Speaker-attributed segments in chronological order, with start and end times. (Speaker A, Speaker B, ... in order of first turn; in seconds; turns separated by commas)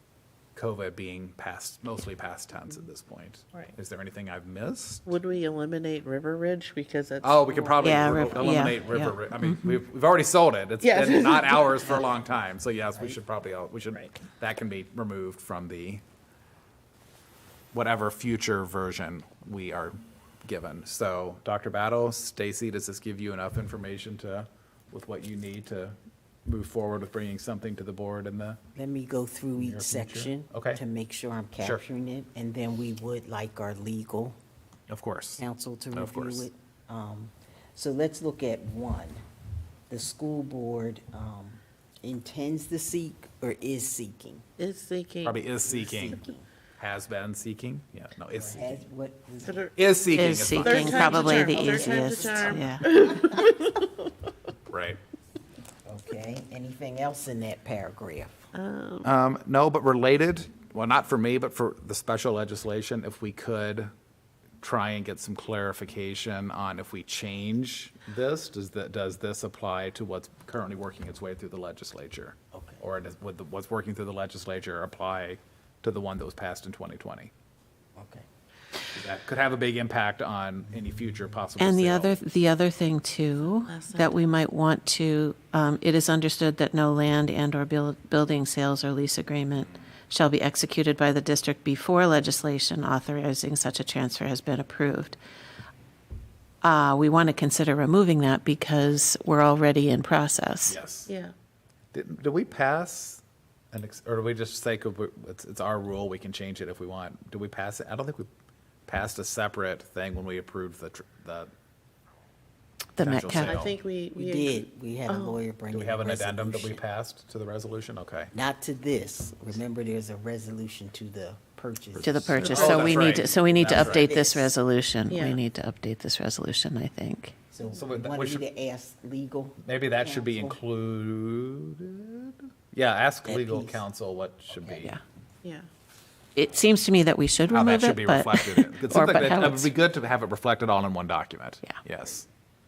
Speaker A: 0.6-5.1, Speaker B: 5.1-7.5, Speaker A: 7.2-16.0, Speaker C: 7.5-8.7, Speaker D: 7.8-9.8, Speaker B: 10.8-11.9, Speaker C: 11.9-12.2, Speaker A: 17.7-28.6, Speaker C: 28.8-34.4, Speaker A: 29.6-30.8, Speaker A: 34.9-36.5, Speaker C: 35.4-39.2, Speaker C: 39.9-44.4, Speaker B: 44.6-45.4, Speaker A: 45.2-46.2, Speaker C: 45.6-46.5, Speaker A: 46.8-48.8, Speaker C: 48.3-49.7, Speaker B: 49.5-54.1, Speaker A: 49.8-51.1, Speaker D: 50.1-52.9, Speaker C: 50.8-53.4, Speaker A: 54.7-55.0, Speaker C: 55.9-58.5, Speaker B: 58.5-59.1, Speaker A: 59.0-63.9, Speaker A: 64.6-77.3, Speaker C: 72.5-72.8, Speaker C: 78.0-78.2, Speaker A: 78.9-82.2, Speaker C: 80.8-81.2, Speaker D: 81.6-95.2, Speaker B: 83.7-84.2, Speaker D: 96.6-100.8, Speaker A: 100.7-101.1, Speaker B: 101.1-101.3, Speaker A: 101.9-103.2, Speaker A: 103.7-108.3, Speaker A: 108.9-111.5, Speaker D: 113.0-113.6, Speaker A: 113.0-113.8, Speaker B: 113.4-114.5, Speaker C: 114.2-116.8, Speaker B: 115.1-115.4, Speaker A: 115.7-118.3, Speaker C: 118.3-124.6, Speaker D: 122.0-127.3, Speaker B: 122.4-122.9, Speaker A: 122.4-124.1, Speaker B: 125.1-125.4, Speaker C: 127.5-130.6, Speaker A: 127.7-128.4, Speaker A: 129.6-135.0, Speaker C: 133.2-133.8, Speaker D: 136.4-139.7, Speaker A: 137.5-142.3